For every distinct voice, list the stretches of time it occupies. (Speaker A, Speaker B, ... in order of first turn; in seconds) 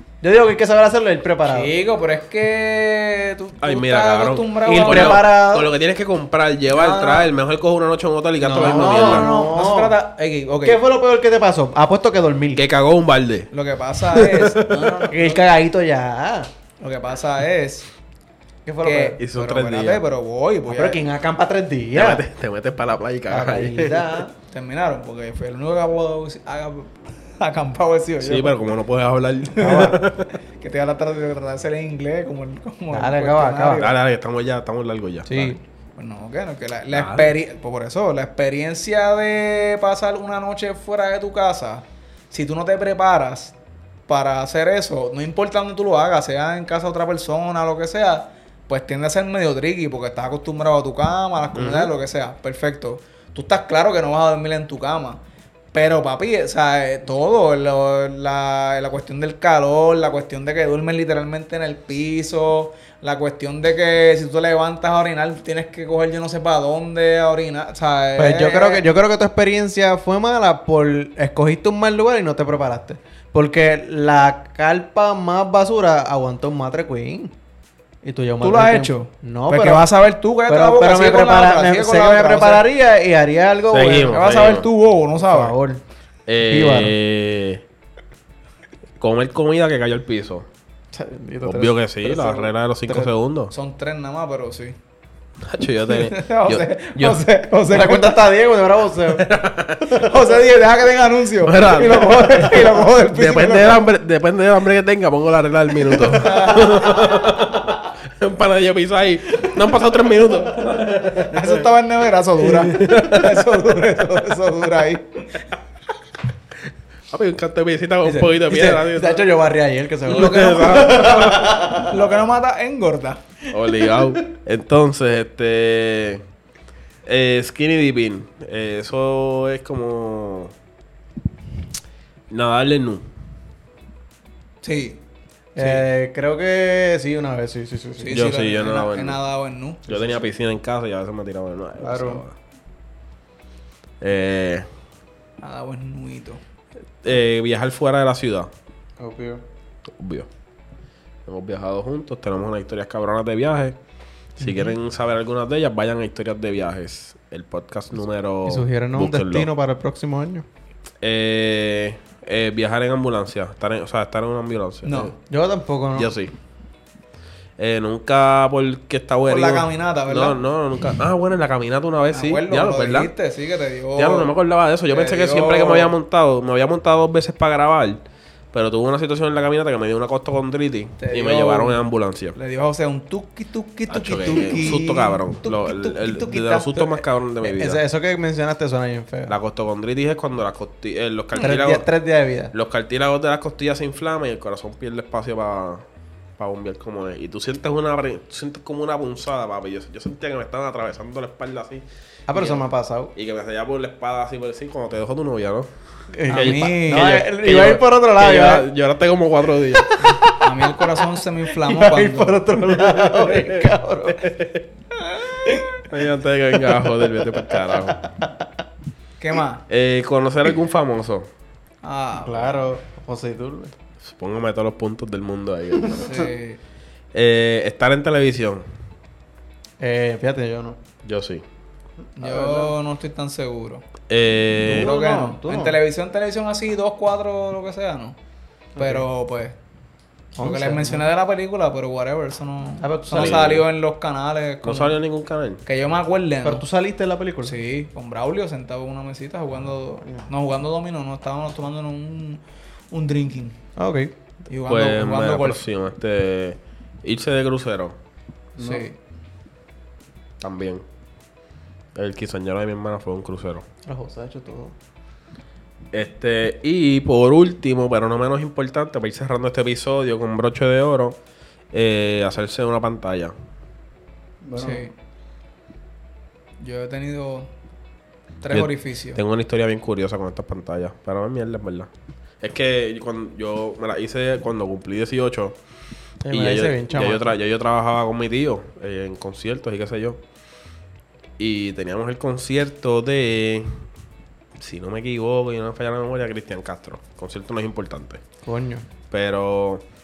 Speaker A: 0.2-1.7, 4.6-5.7, 8.4-9.9, 10.6-12.7, 14.7-16.5, 18.6-19.2, 20.7-22.2, 23.3-24.3, 29.6-30.0, 32.9-33.9, 35.3-35.6, 68.2-77.3, 78.0-79.9, 80.5-84.2, 85.2-85.8, 86.4-87.0, 90.9-93.1, 97.7-99.3, 102.0-102.8, 106.9-107.3, 110.3-111.2, 112.5-113.0, 118.0-122.1, 123.8-124.1, 135.6-138.2, 141.8-142.2, 149.0-149.4, 154.4-154.7, 158.4-160.5, 165.3-166.1, 184.3-184.9, 186.0-189.3, 191.4-192.5, 202.3-203.1, 206.1-208.7, 209.7-214.3, 216.5-218.5, 222.2-223.7, 225.8-226.1, 229.8-230.8, 232.1-232.7, 234.6-235.8, 238.8-239.1, 240.3-241.1, 242.8-243.5, 246.4-247.6, 253.8-254.1, 258.6-258.9, 263.9-264.8, 274.4-274.9, 286.2-287.4, 298.4-298.9
Speaker B: 1.5-5.2, 6.7-7.3, 8.5-10.8, 13.5-15.4, 16.8-17.9, 18.8-21.0, 24.5-28.8, 29.5-30.0, 30.6-34.0, 36.0-43.6, 44.1-55.2, 55.7-68.9, 78.4-82.7, 84.1-85.6, 93.5-94.8, 95.9-98.2, 99.9-103.8, 105.9-107.2, 111.1-115.5, 120.1-123.2, 134.6-135.0, 135.6-135.8, 138.0-140.2, 145.4-146.4, 164.8-165.1, 169.3-170.4, 172.1-174.3, 174.9-175.9, 181.0-181.8, 182.3-186.7, 206.3-207.1, 210.4-212.4, 215.0-215.5, 219.2-219.6, 221.8-222.6, 225.9-226.6, 232.2-233.8, 234.7-238.2, 238.8-239.6, 240.4-245.0, 245.6-246.7, 247.4-252.4, 252.9-253.6, 254.5-255.6, 258.6-259.0, 274.6-274.9, 276.6-277.5, 278.4-279.2
Speaker C: 3.6-9.3, 12.6-13.5, 14.1-14.9, 19.2-20.0, 21.9-24.2, 28.2-30.3, 33.7-35.6, 36.9-37.3, 51.5-51.9, 83.7-84.7, 86.3-87.6, 89.0-90.5, 91.4-93.5, 95.4-97.2, 99.2-100.1, 101.4-111.6, 112.7-113.4, 117.1-119.3, 120.1-121.5, 123.5-126.2, 127.1-130.5, 132.3-133.1, 138.1-139.2, 139.9-142.3, 144.0-144.7, 147.0-148.5, 150.0-150.3, 151.3-153.8, 154.4-159.5, 161.0-165.2, 166.0-166.3, 167.6-173.1, 174.0-178.0, 178.5-182.4, 183.9-187.8, 189.3-191.9, 192.5-195.8, 196.4-201.8, 203.2-205.7, 206.2-210.3, 212.8-214.6, 215.9-218.0, 219.7-221.3, 224.0-226.1, 227.1-228.7, 231.1-231.4, 234.1-234.9, 243.1-243.7, 244.6-245.6, 254.7-258.0, 260.4-260.8, 261.9-263.7, 265.9-271.2, 271.7-273.3, 278.5-281.9, 282.4-285.6, 286.3-290.2, 291.4-293.8, 294.6-298.2, 299.1-299.8